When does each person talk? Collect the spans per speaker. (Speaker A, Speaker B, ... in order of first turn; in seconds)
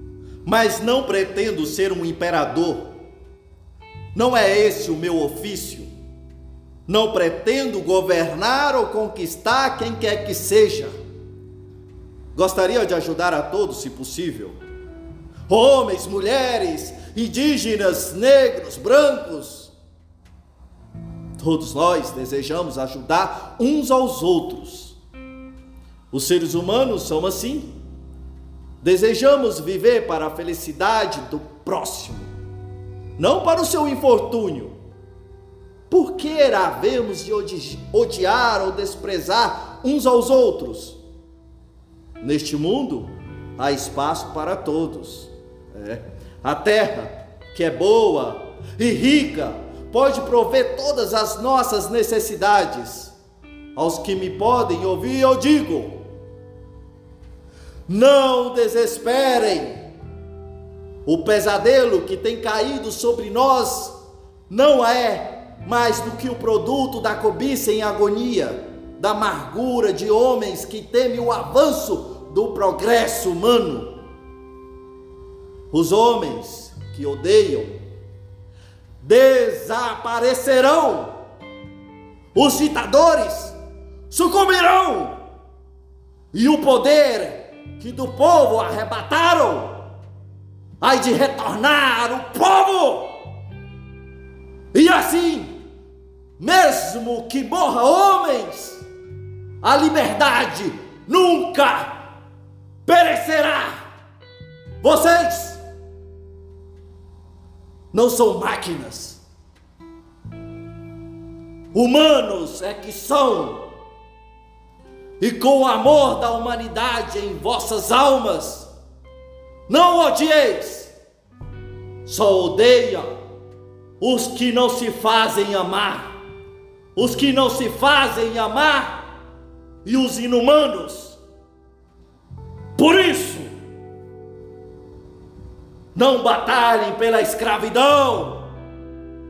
Speaker A: 0.4-2.9, 4.1-5.9, 6.9-10.9, 12.3-14.6, 15.5-19.7, 21.4-25.0, 26.1-27.7, 28.8-32.3, 33.2-34.7, 35.9-41.0, 42.2-53.1, 53.7-56.0, 57.9-59.9, 61.0-63.9, 64.5-74.0, 75.7-77.8, 79.0-81.2, 82.3-83.5, 84.1-85.2, 86.3-89.8, 90.8-93.2, 94.7-95.6, 96.4-98.8, 99.6-102.0, 102.8-103.8, 104.8-105.6, 107.9-109.2, 111.7-113.7, 115.2-118.7, 119.7-120.9, 122.0-123.1, 124.0-126.1, 126.9-129.1, 129.8-131.2, 132.8-133.5, 135.9-138.5